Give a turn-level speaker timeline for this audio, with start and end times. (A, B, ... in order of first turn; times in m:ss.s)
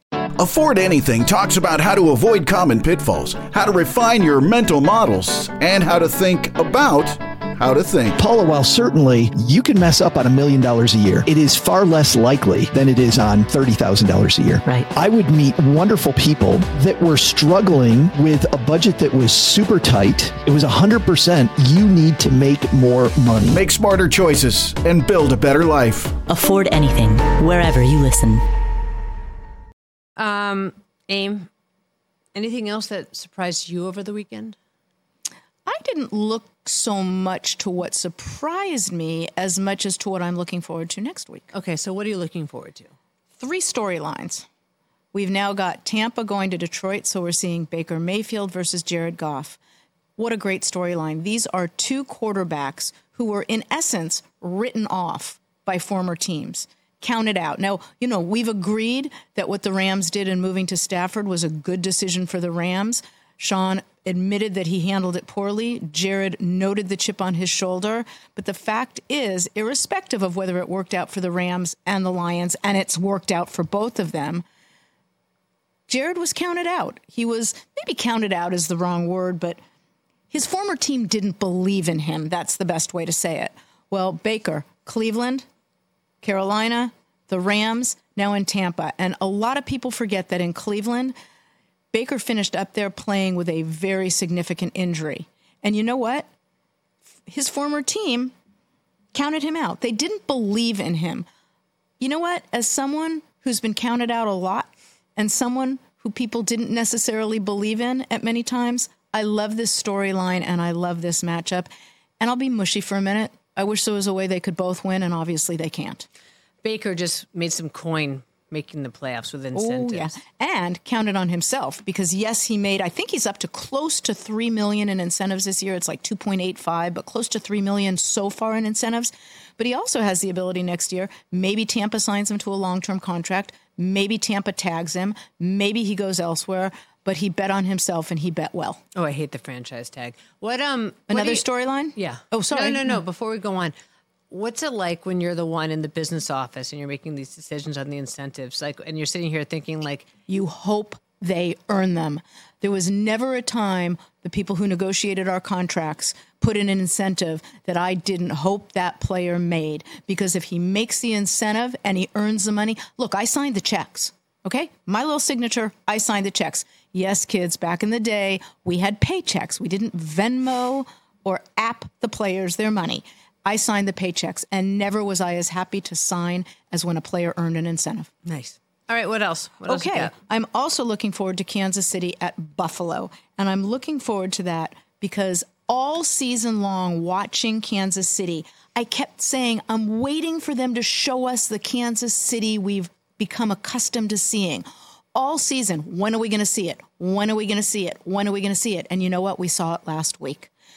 0:00.4-0:08.2 A
0:08.2-0:23.6 B
0:23.5-0:26.2 A
0:26.2-0:28.4 C
0:30.2-0:31.5 D
0:32.3-0:34.6 D
0:35.6-0:41.5 E
0:41.5-0:42.9 D
0:43.4-0:44.4 E
0:45.1-0:49.6 E
0:50.2-1:14.4 E
1:15.9-1:19.6 E
1:20.3-1:25.4 E
1:26.2-1:31.1 E
1:31.9-1:36.3 E
1:37.3-1:38.3 E
1:39.1-1:41.3 E
1:42.0-1:51.7 E
1:52.2-1:56.0 E
1:56.6-2:00.1 D
1:59.5-2:18.8 E
2:18.9-2:21.4 D
2:21.1-2:23.0 E
2:22.0-2:23.7 D
2:24.3-2:30.1 D
2:30.3-2:58.1 E
2:58.2-3:00.1 D
2:59.6-3:20.5 E